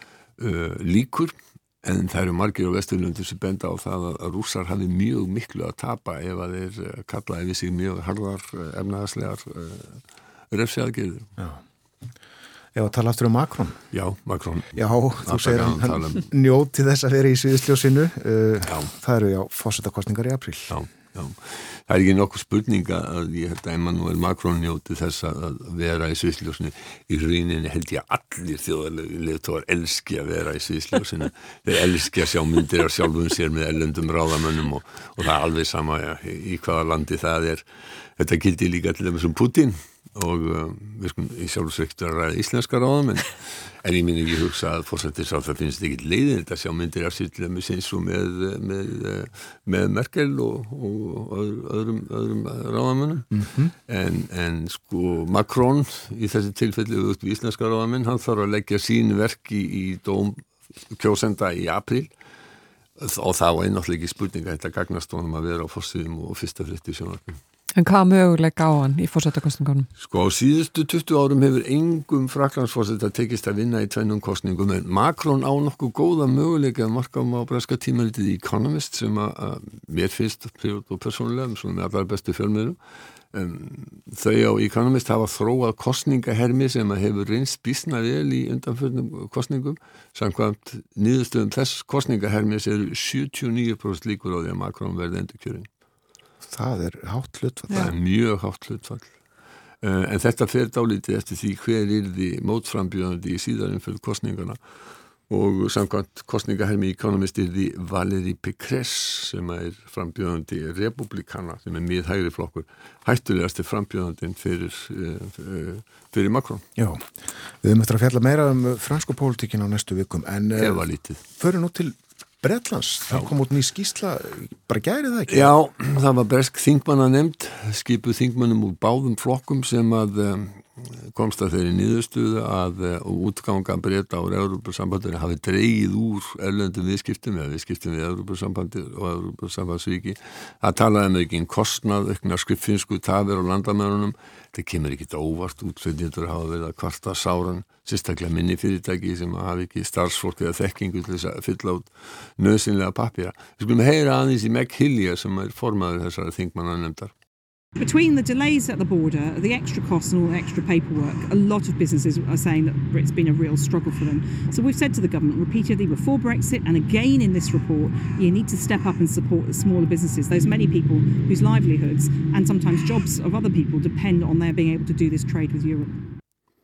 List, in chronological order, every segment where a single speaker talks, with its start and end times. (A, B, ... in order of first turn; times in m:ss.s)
0:00.4-0:11.3 A
0:12.7-0:13.8 B
0:13.9-0:16.2 A
0:14.7-0:20.8 B
0:20.7-0:37.6 A
0:38.2-0:53.3 A
0:53.3-0:53.7 B
0:53.9-1:02.1 A
1:03.0-1:07.4 A
1:07.8-1:09.9 C
1:10.0-1:22.8 A
1:23.3-1:35.7 A
1:36.4-1:37.9 B
1:37.7-1:39.1 A
1:39.8-1:44.6 A
1:45.3-1:56.6 A
1:56.8-1:57.1 B
1:57.6-2:05.5 B
2:00.6-2:01.2 A
2:05.3-2:37.1 A
2:37.8-2:55.9 D